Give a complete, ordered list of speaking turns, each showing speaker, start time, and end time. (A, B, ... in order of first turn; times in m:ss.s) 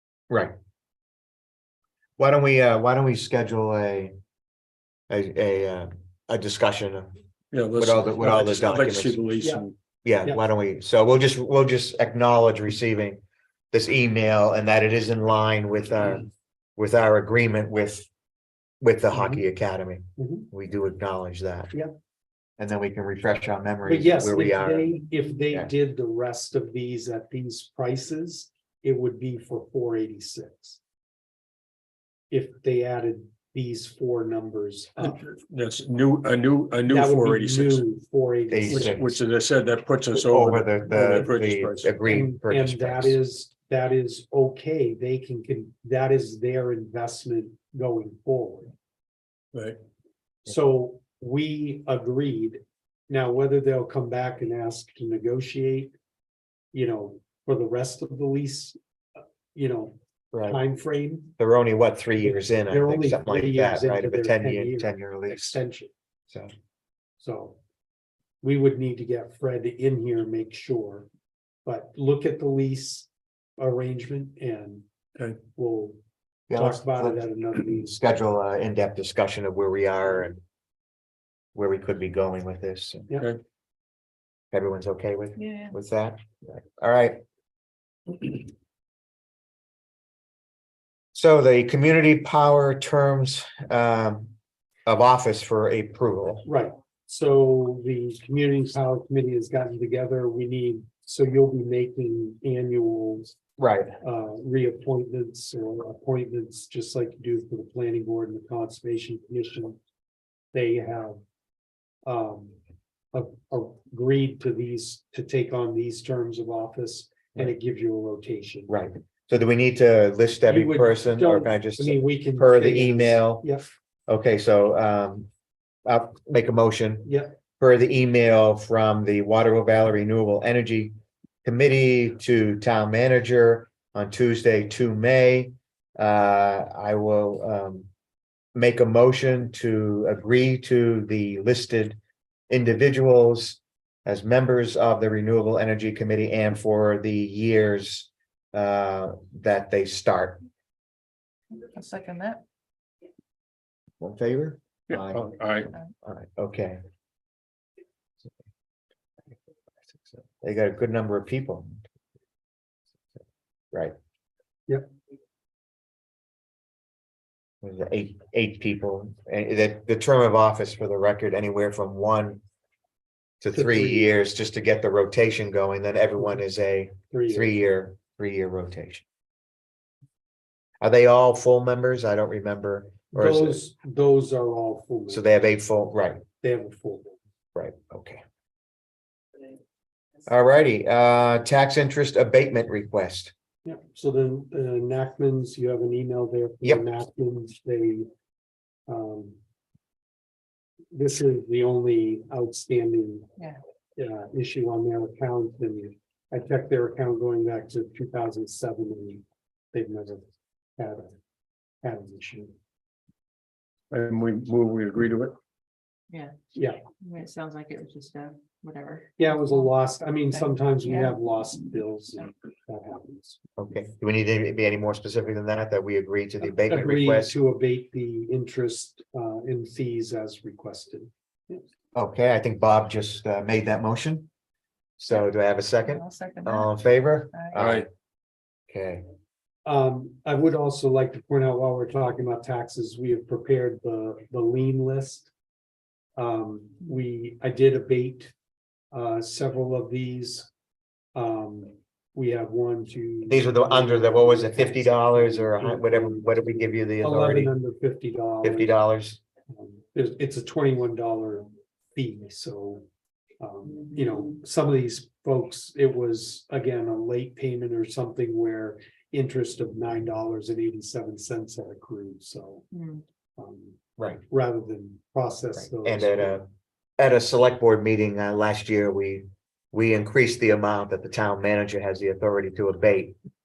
0:02.2-0:04.1 A
0:05.1-0:07.1 A
0:07.5-0:09.7 B
0:07.8-0:09.2 A
0:10.0-0:13.2 A
0:13.7-0:18.1 A
0:18.8-0:21.7 A
0:19.1-0:19.4 C
0:20.2-0:20.5 C
0:22.6-0:25.0 A
0:23.8-0:30.8 C
0:32.3-0:35.2 C
0:35.0-0:37.8 B
0:36.9-0:39.0 C
0:38.5-0:39.1 A
0:38.7-0:42.0 B
0:40.1-0:43.2 A
0:42.0-0:48.7 C
0:50.4-0:55.9 C
0:56.7-0:58.8 C
0:59.5-1:01.3 C
1:00.3-1:00.6 A
1:01.4-1:05.6 A
1:02.2-1:05.9 C
1:07.2-1:07.6 C
1:08.4-1:11.1 C
1:11.6-1:14.8 C
1:15.5-1:16.0 C
1:16.5-1:20.4 A
1:16.5-1:18.0 C
1:21.5-1:23.1 A
1:24.5-1:27.2 A
1:25.4-1:25.7 D
1:28.1-1:28.4 A
1:31.1-1:34.3 A
1:34.8-1:36.4 A
1:36.4-1:43.4 C
1:43.6-1:43.9 A
1:44.0-1:49.8 C
1:50.5-1:51.2 C
1:52.0-1:52.6 C
1:53.1-1:58.7 C
1:58.7-2:03.4 A
2:00.5-2:03.7 C
2:04.1-2:05.3 A
2:05.8-2:10.9 A
2:07.0-2:07.3 C
2:11.4-2:17.9 A
2:18.5-2:22.0 A
2:22.5-2:30.4 A
2:31.5-2:32.4 D
2:34.0-2:35.2 A
2:34.9-2:35.7 B
2:36.0-2:36.8 A
2:39.9-2:41.8 A
2:47.6-2:52.4 A
2:53.4-2:59.0 A
2:53.5-2:54.1 C
2:57.1-2:57.6 C
3:00.8-3:03.6 A
3:03.1-3:05.2 C
3:05.1-3:06.2 A
3:06.4-3:07.2 C
3:07.5-3:08.2 A
3:10.2-3:13.3 A
3:13.6-3:18.1 C
3:18.9-3:19.4 C
3:20.9-3:23.3 C
3:24.0-3:30.2 C
3:30.8-3:31.2 C
3:31.8-3:32.5 C
3:33.9-3:35.3 B
3:36.5-3:36.8 C
3:37.0-3:39.8 D
3:39.2-3:43.4 C
3:40.3-3:41.2 D
3:43.6-3:47.3 A
3:46.4-3:51.6 C
3:51.9-3:54.3 A
3:55.0-3:57.9 A
3:55.8-3:57.6 D
3:57.6-3:57.8 B
3:58.7-3:59.0 A
3:59.6-4:05.3 C
4:06.2-4:08.3 C
4:08.9-4:10.5 C
4:11.1-4:18.7 C
4:13.3-4:17.5 A
4:18.4-4:19.2 A
4:19.5-4:22.8 C
4:23.4-4:32.7 C
4:32.7-4:33.0 D
4:33.4-4:36.4 C
4:35.6-4:36.5 A
4:37.0-4:43.2 A